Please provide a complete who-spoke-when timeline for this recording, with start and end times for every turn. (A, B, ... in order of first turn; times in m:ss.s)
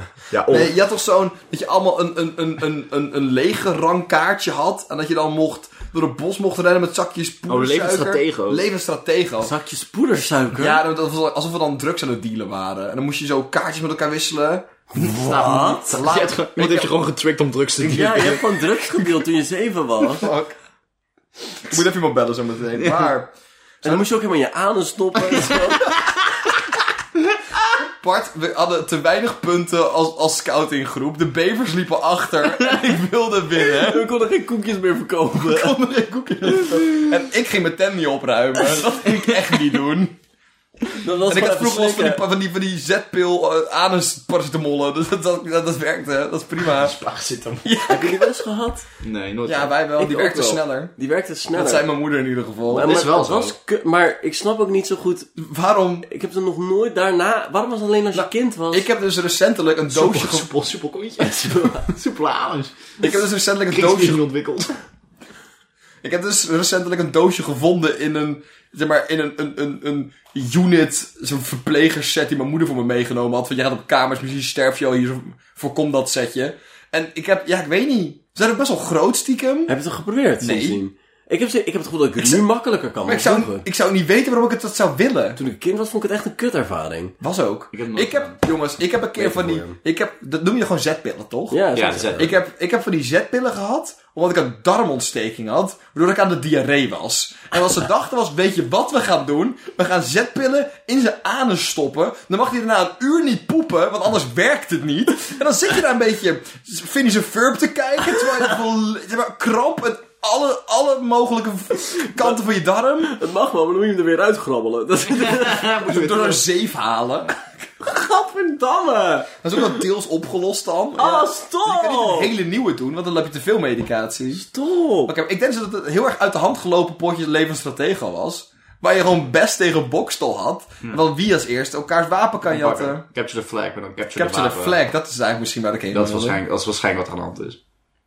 0:00.3-0:00.7 A
0:00.5-0:09.5 B
0:07.5-0:08.7 A
0:09.4-0:10.8 C
0:10.6-0:14.7 B
0:14.9-0:15.9 C
0:15.0-0:18.6 A
0:15.8-0:16.9 B
0:17.8-0:20.3 C
0:20.2-0:20.5 B
0:21.7-0:24.0 B
0:22.8-0:23.1 A
0:23.8-0:26.0 C
0:25.5-0:26.0 A
0:27.9-0:34.1 B
0:33.6-0:35.8 C
0:35.4-0:40.2 B
0:36.5-0:37.0 A
0:39.0-0:39.4 A
0:41.0-0:42.2 C
0:41.3-0:47.0 B
0:46.6-0:47.7 A
0:47.6-0:48.4 B
0:47.9-0:48.9 C
0:49.0-0:49.8 A
0:49.4-0:50.9 B
0:50.0-0:51.9 C
0:51.5-0:53.0 B
0:52.7-0:55.3 C
0:52.8-0:53.5 A
0:55.4-0:56.1 B
0:56.0-0:58.9 C
0:58.1-1:00.5 B
0:59.9-1:02.9 A
1:01.2-1:01.9 C
1:03.0-1:04.2 B
1:03.7-1:04.7 A
1:06.0-1:19.7 B
1:19.7-1:23.6 C
1:20.4-1:20.8 B
1:23.0-1:25.4 B
1:25.4-1:27.2 C
1:27.2-1:31.6 B
1:27.7-1:28.4 A
1:29.2-1:29.8 C
1:31.5-1:32.3 C
1:31.8-1:32.3 A
1:32.2-1:53.2 B
1:51.9-1:52.4 C
1:53.0-1:55.7 C
1:55.1-1:56.4 A
1:55.8-1:57.4 B
1:57.9-1:59.2 C
1:58.2-1:59.2 A
1:59.4-2:04.4 B
2:01.0-2:02.3 C
2:04.4-2:05.1 C
2:05.1-2:13.0 B
2:12.5-2:14.8 A
2:14.2-2:16.4 B
2:15.9-2:17.6 A